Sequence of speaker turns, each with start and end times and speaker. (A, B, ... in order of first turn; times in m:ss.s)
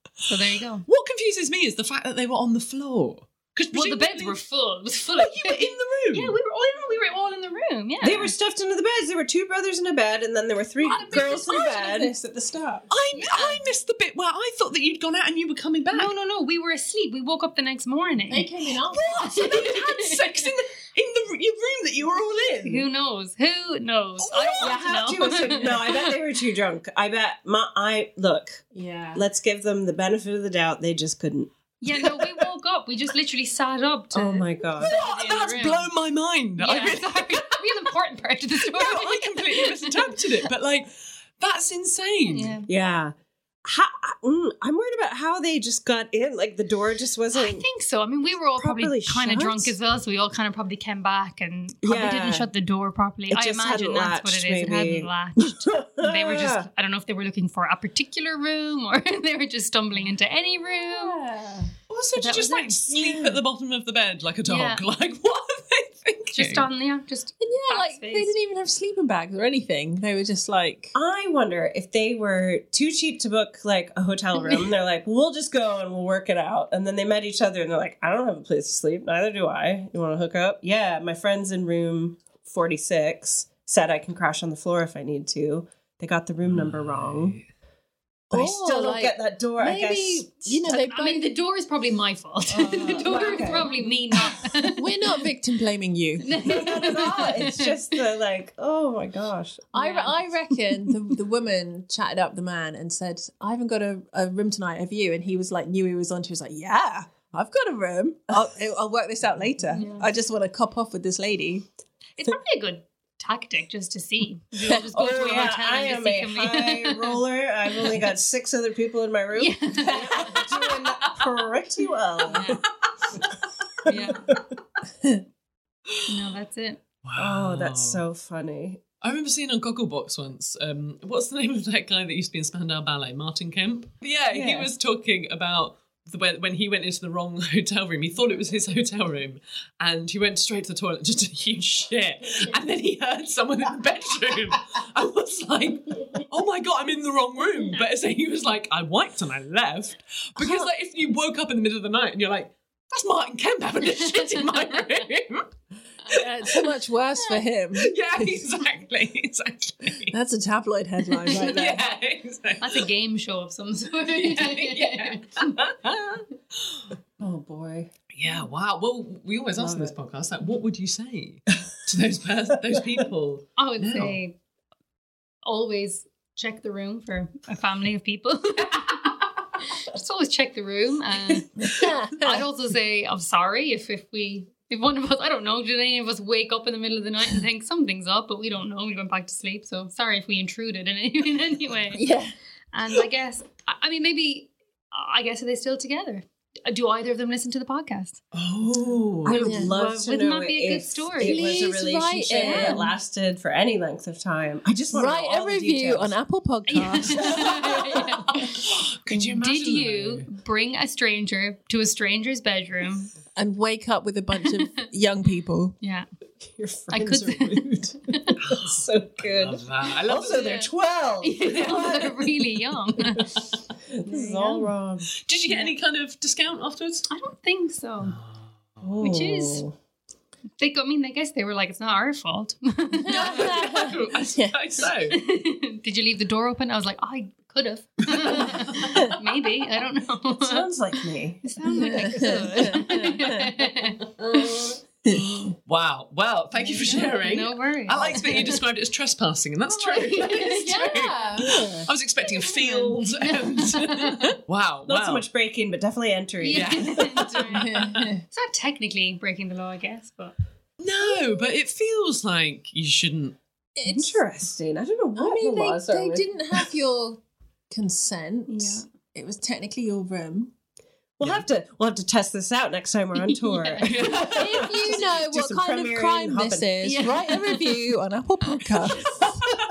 0:00.2-0:04.4 A
0:00.3-0:00.8 B
0:03.7-0:08.3 B
0:05.1-0:06.4 A
0:08.0-0:12.1 C
0:10.8-0:12.9 D
0:10.9-0:11.3 B
0:12.9-0:16.1 A
0:13.1-0:13.7 B
0:15.9-0:20.5 B
0:18.3-0:19.2 D
0:18.9-0:22.8 A
0:22.1-0:22.6 C
0:22.6-0:25.8 B
0:24.2-0:25.7 A
0:24.6-0:32.4 C
0:28.7-0:29.2 D
0:31.8-0:35.9 B
0:34.1-0:35.0 C
0:34.8-0:37.9 A
0:36.6-0:40.1 B
0:38.7-0:42.6 A
0:42.2-0:42.7 B
0:42.7-0:47.6 C
0:47.3-1:01.2 B
0:48.6-0:49.7 C
0:51.8-0:52.5 C
0:53.3-0:56.7 C
1:00.7-1:01.7 D
1:01.9-1:06.7 A
1:02.2-1:02.9 B
1:04.4-1:04.9 B
1:06.3-1:08.3 B
1:07.4-1:10.9 D
1:10.9-1:27.4 C
1:26.4-1:27.4 A
1:28.3-1:30.4 C
1:28.3-1:31.3 D
1:30.5-1:35.0 B
1:32.5-1:33.9 C
1:32.9-1:36.4 D
1:36.2-1:37.8 B
1:36.4-1:39.7 C
1:39.7-1:40.2 B
1:39.7-1:51.7 D
1:49.7-1:50.1 B
1:52.2-1:57.2 B
1:54.9-2:02.6 C
1:59.3-2:00.4 B
2:02.2-2:02.6 B
2:03.1-2:04.4 C
2:03.9-2:04.2 B
2:06.1-2:06.8 B
2:07.0-2:08.0 A
2:07.2-2:08.8 C
2:09.0-2:35.5 A
2:14.3-2:14.7 C
2:30.4-2:30.7 D
2:34.0-2:34.3 B
2:36.1-2:38.3 D
2:36.1-2:36.6 A
2:37.8-2:40.2 A
2:40.1-2:41.8 D
2:41.2-2:42.9 A
2:41.4-2:41.7 C
2:42.6-2:45.5 B
2:44.1-2:46.9 A
2:47.2-2:47.9 C
2:48.1-2:54.2 A
2:49.6-2:49.9 C
2:53.6-2:54.3 B
2:55.4-3:12.0 B
3:01.6-3:02.4 D
3:11.9-3:12.3 D
3:12.7-3:18.2 B
3:18.3-3:19.6 A
3:19.2-3:26.1 C
3:19.4-3:20.0 D
3:19.8-3:21.7 B
3:21.2-3:22.9 D
3:22.3-3:22.8 B
3:24.9-3:27.4 D
3:26.7-3:28.5 B
3:27.4-3:28.0 C
3:28.3-3:30.3 A
3:29.4-3:33.1 B
3:33.4-3:35.8 D
3:34.4-3:34.8 B
3:35.8-3:36.1 B
3:36.4-3:42.4 C
3:36.9-3:38.3 B
3:38.4-3:40.7 A
3:41.2-3:43.3 B
3:41.6-3:42.0 A
3:43.9-3:45.1 C
3:44.1-3:44.7 B
3:45.2-3:47.1 A
3:47.1-3:48.2 B
3:48.0-3:48.4 A
3:48.8-3:49.7 C
3:49.0-3:49.6 B
3:50.6-3:53.7 B
3:52.9-3:54.5 D
3:53.1-3:55.2 A
3:55.1-4:00.7 B
3:58.0-3:58.9 A
3:58.8-3:59.1 D
4:00.3-4:01.4 C
4:01.4-4:04.0 B
4:01.7-4:03.6 D
4:02.0-4:02.3 C
4:04.2-4:04.6 A
4:05.0-4:05.5 D
4:05.6-4:15.2 A
4:06.6-4:08.6 B
4:09.6-4:11.3 B
4:10.6-4:11.7 D
4:12.3-4:14.4 B
4:14.9-4:17.4 C
4:16.4-4:17.8 B
4:16.5-4:18.0 A
4:17.5-4:18.2 D
4:18.3-4:20.3 B
4:20.8-4:23.4 A
4:23.8-4:24.2 D
4:23.8-4:26.2 C
4:25.2-4:30.5 D
4:28.5-4:28.8 B
4:31.2-4:36.8 C
4:31.2-4:31.4 A
4:33.2-4:34.1 B
4:33.8-4:34.6 A
4:34.1-4:39.4 D
4:36.8-4:37.8 B